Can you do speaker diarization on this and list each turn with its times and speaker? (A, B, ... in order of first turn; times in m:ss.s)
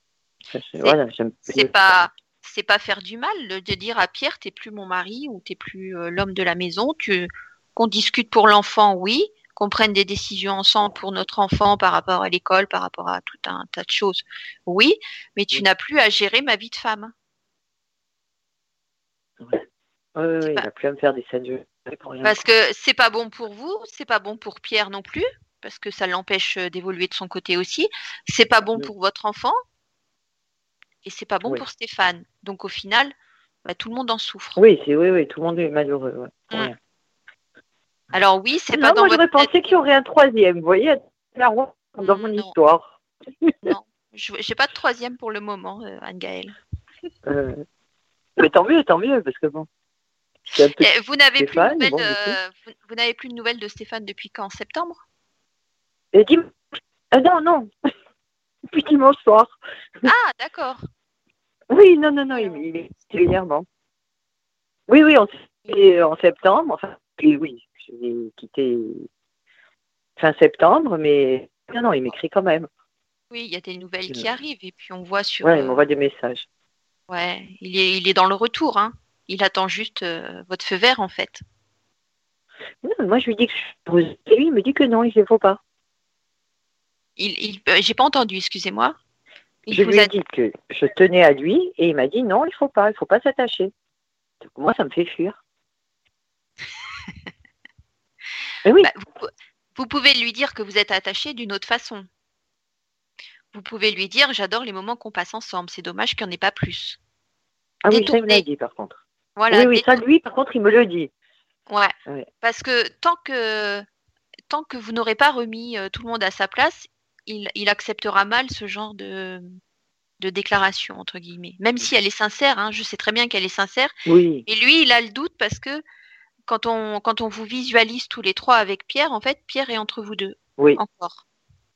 0:00.5-0:01.7 A
0:01.5-0:17.1 B
0:20.2-0:22.4 A
0:22.2-0:29.6 B
0:31.0-0:34.6 B
0:34.6-0:36.8 A
0:38.1-0:39.5 B
0:38.7-0:43.7 A
0:42.0-0:42.5 B
0:43.6-0:46.6 B
0:47.2-0:47.6 A
0:48.4-0:49.7 A
0:50.5-0:52.4 A
0:50.8-0:55.0 B
0:56.1-0:56.6 A
0:57.1-0:57.7 A
0:58.7-0:59.6 A
1:00.0-1:00.8 B
1:01.7-1:03.6 A
1:02.3-1:02.6 B
1:04.9-1:09.1 A
1:10.2-1:12.7 A
1:13.3-1:15.8 B
1:15.4-1:16.4 A
1:17.1-1:21.4 B
1:22.8-1:25.6 A
1:27.2-1:29.0 B
1:29.7-1:30.1 B
1:29.7-1:33.7 A
1:34.4-1:35.4 A
1:38.6-1:38.9 A
1:38.8-1:42.1 B
1:43.5-1:47.0 B
1:47.8-1:49.0 A
1:47.9-1:48.4 B
1:49.4-1:49.9 B
1:49.5-1:51.1 A
1:51.7-1:53.8 B
1:54.5-1:59.5 B
2:00.2-2:03.9 B
2:04.0-2:04.4 A
2:04.4-2:05.8 B
2:06.5-2:11.2 B